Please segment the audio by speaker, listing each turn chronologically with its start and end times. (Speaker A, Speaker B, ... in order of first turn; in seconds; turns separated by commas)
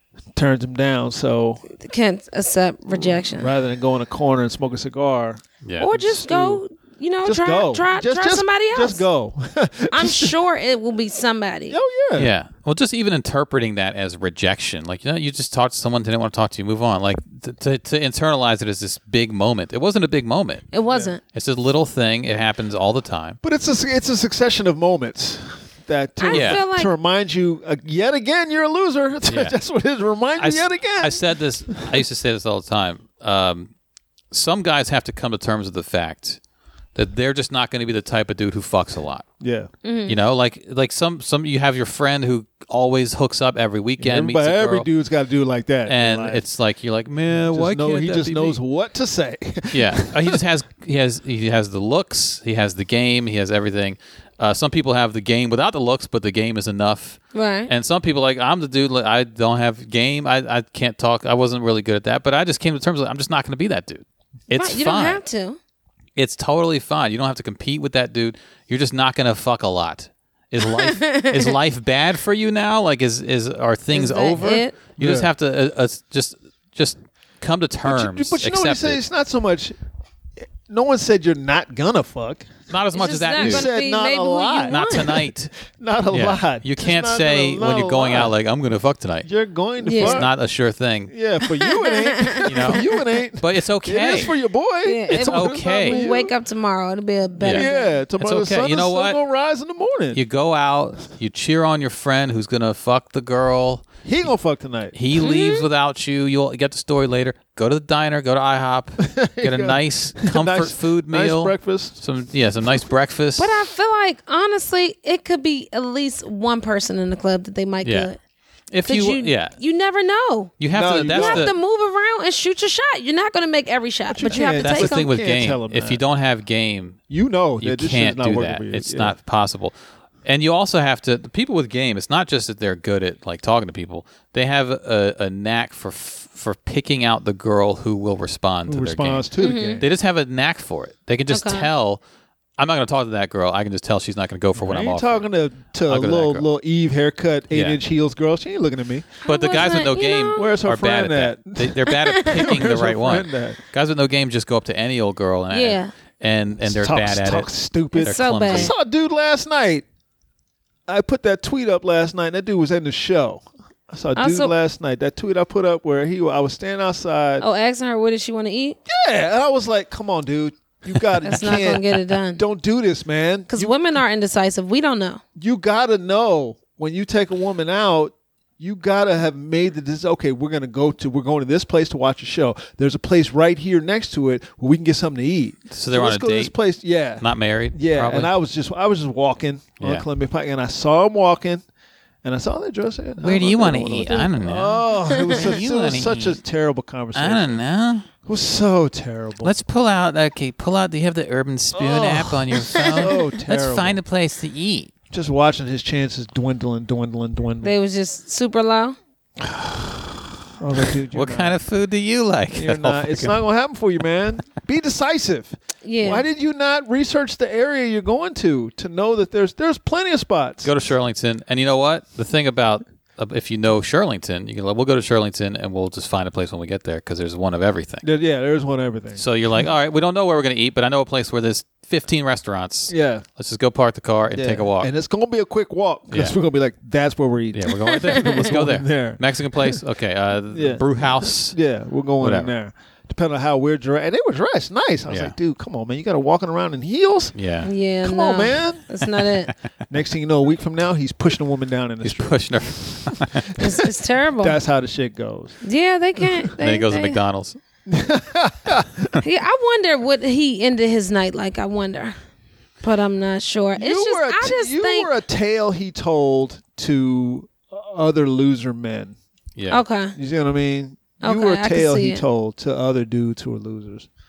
Speaker A: 0.3-1.6, Speaker B: 1.7-3.5, Speaker A: 3.0-6.6, Speaker C: 5.6-5.9, Speaker B: 5.8-9.0, Speaker A: 7.2-10.3, Speaker B: 9.9-11.8, Speaker A: 11.7-12.3, Speaker C: 12.2-20.7, Speaker B: 20.7-21.2, Speaker C: 21.3-23.4, Speaker A: 23.4-31.2, Speaker B: 26.2-26.9, Speaker C: 26.3-26.6, Speaker C: 29.2-29.6, Speaker C: 30.4-33.7, Speaker C: 34.3-36.4, Speaker C: 36.9-39.2, Speaker A: 39.4-39.7, Speaker B: 39.8-40.2, Speaker C: 40.0-44.9, Speaker A: 44.0-46.4, Speaker C: 45.9-48.6, Speaker A: 47.5-50.4, Speaker C: 49.7-65.2, Speaker B: 57.3-57.7, Speaker B: 64.5-65.6, Speaker C: 66.2-79.0, Speaker B: 70.6-71.5, Speaker B: 73.9-74.8, Speaker A: 75.0-75.3, Speaker A: 77.8-79.7, Speaker A: 80.6-82.5, Speaker C: 82.7-83.7, Speaker B: 82.9-85.1, Speaker A: 83.4-88.3, Speaker C: 84.7-85.5, Speaker C: 86.1-89.3, Speaker A: 89.2-90.3, Speaker B: 89.8-90.2, Speaker C: 90.0-91.1, Speaker A: 91.1-96.3, Speaker B: 91.5-92.8, Speaker C: 92.4-92.8, Speaker C: 93.4-94.3, Speaker B: 94.8-97.9, Speaker C: 95.1-96.0, Speaker C: 97.4-97.7, Speaker A: 97.5-100.2, Speaker C: 98.2-99.2, Speaker C: 100.1-103.9, Speaker A: 104.0-105.0, Speaker C: 104.9-113.5, Speaker B: 105.2-105.6, Speaker A: 109.0-112.0, Speaker B: 113.4-118.2, Speaker C: 117.8-118.1, Speaker C: 118.7-119.5, Speaker B: 118.8-120.5, Speaker C: 120.6-121.5, Speaker A: 120.7-121.5, Speaker B: 121.1-125.1, Speaker A: 124.1-126.0, Speaker C: 124.3-127.0, Speaker A: 127.1-129.1, Speaker C: 127.6-142.0, Speaker A: 138.7-139.8, Speaker B: 139.4-139.8, Speaker B: 141.3-141.7, Speaker C: 142.6-145.2, Speaker A: 144.6-149.2, Speaker C: 145.9-146.4, Speaker C: 147.5-147.8, Speaker B: 149.2-150.4, Speaker C: 149.2-158.7, Speaker A: 150.3-153.6, Speaker B: 151.9-152.5, Speaker B: 155.5-155.9, Speaker A: 156.6-159.8, Speaker B: 157.9-158.7, Speaker A: 160.9-167.4, Speaker B: 164.2-164.5, Speaker B: 167.4-168.8, Speaker A: 168.9-173.7, Speaker B: 171.2-172.4, Speaker B: 173.5-175.2, Speaker A: 175.3-191.6, Speaker C: 185.7-186.5, Speaker C: 187.2-188.3, Speaker C: 189.8-190.0, Speaker A: 192.2-197.6, Speaker C: 193.2-196.4, Speaker C: 197.1-198.1, Speaker A: 198.2-199.5, Speaker C: 199.4-204.9, Speaker A: 201.7-204.0, Speaker A: 205.1-207.7, Speaker B: 207.6-208.9, Speaker C: 209.4-210.3, Speaker A: 210.6-211.6, Speaker C: 211.1-213.4, Speaker A: 212.5-220.7, Speaker B: 215.8-216.2, Speaker C: 220.6-228.1, Speaker A: 228.0-229.2, Speaker C: 229.2-234.9, Speaker A: 232.9-233.2, Speaker A: 234.3-239.8, Speaker C: 236.1-236.4, Speaker C: 237.5-241.6, Speaker A: 240.5-247.3, Speaker C: 242.2-242.5, Speaker C: 245.1-245.3, Speaker C: 247.3-247.7, Speaker B: 247.6-249.5, Speaker A: 248.0-248.8, Speaker A: 249.9-253.8, Speaker C: 252.0-253.6, Speaker B: 253.6-254.6, Speaker A: 254.4-255.6, Speaker B: 255.6-257.2, Speaker A: 256.2-256.5, Speaker C: 256.6-257.6, Speaker A: 257.9-259.2, Speaker B: 259.2-262.2, Speaker B: 262.8-265.1, Speaker A: 263.8-269.2, Speaker C: 269.6-269.8, Speaker B: 269.7-270.1, Speaker A: 270.1-274.1, Speaker B: 271.2-272.2